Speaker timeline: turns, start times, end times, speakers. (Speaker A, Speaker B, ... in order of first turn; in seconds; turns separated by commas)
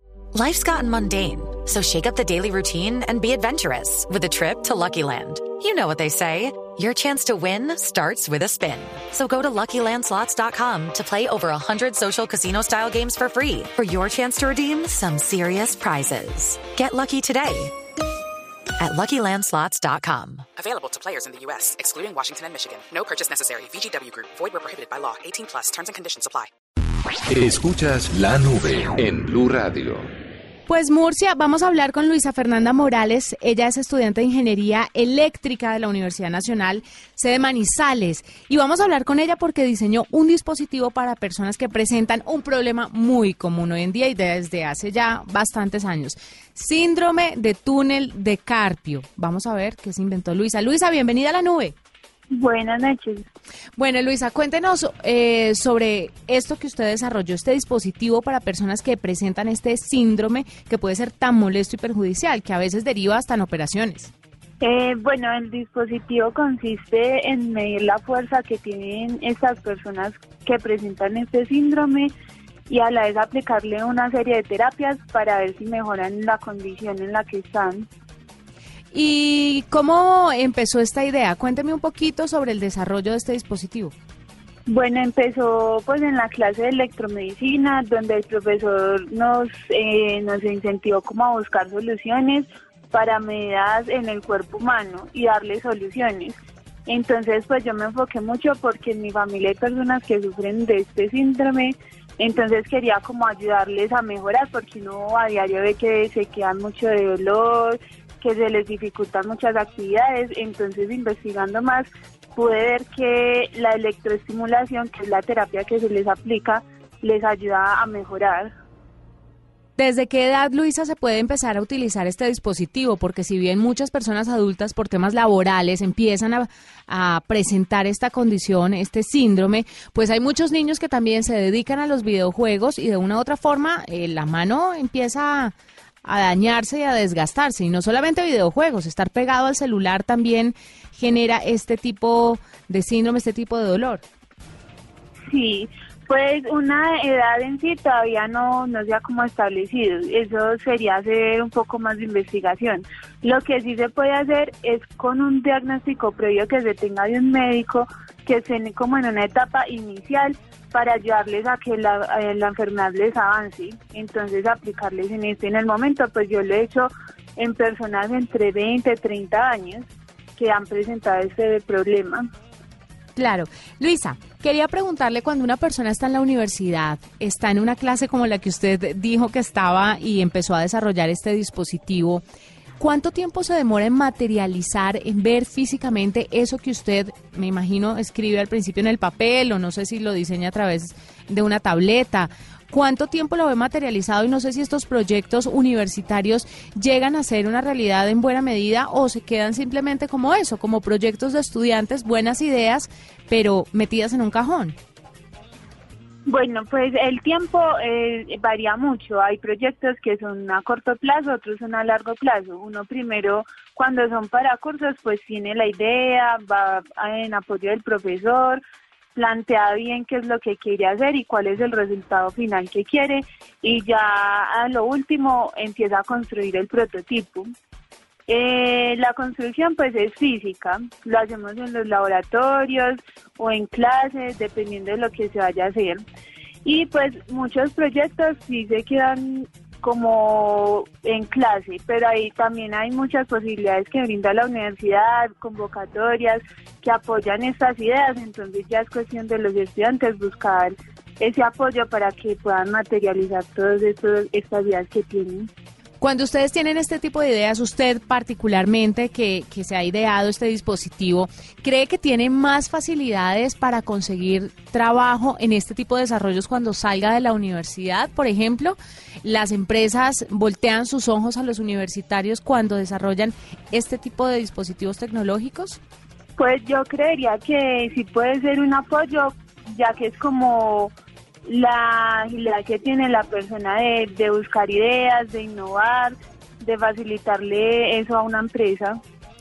Speaker A: 0.3-17.7, Speaker A: 18.8-20.4, Speaker B: 20.6-26.5, Speaker C: 27.3-30.1, Speaker D: 30.7-51.8, Speaker E: 52.3-53.2, Speaker D: 53.8-64.1, Speaker E: 64.6-72.1, Speaker E: 72.7-77.9, Speaker D: 78.9-84.0, Speaker E: 84.7-118.5, Speaker D: 119.8-144.0, Speaker E: 145.3-172.2, Speaker D: 173.2-182.2, Speaker D: 182.8-204.8, Speaker E: 206.3-218.6, Speaker E: 219.2-227.5, Speaker E: 228.3-236.0, Speaker E: 236.7-255.5, Speaker D: 256.0-275.8, Speaker E: 276.4-280.9, Speaker E: 281.4-289.0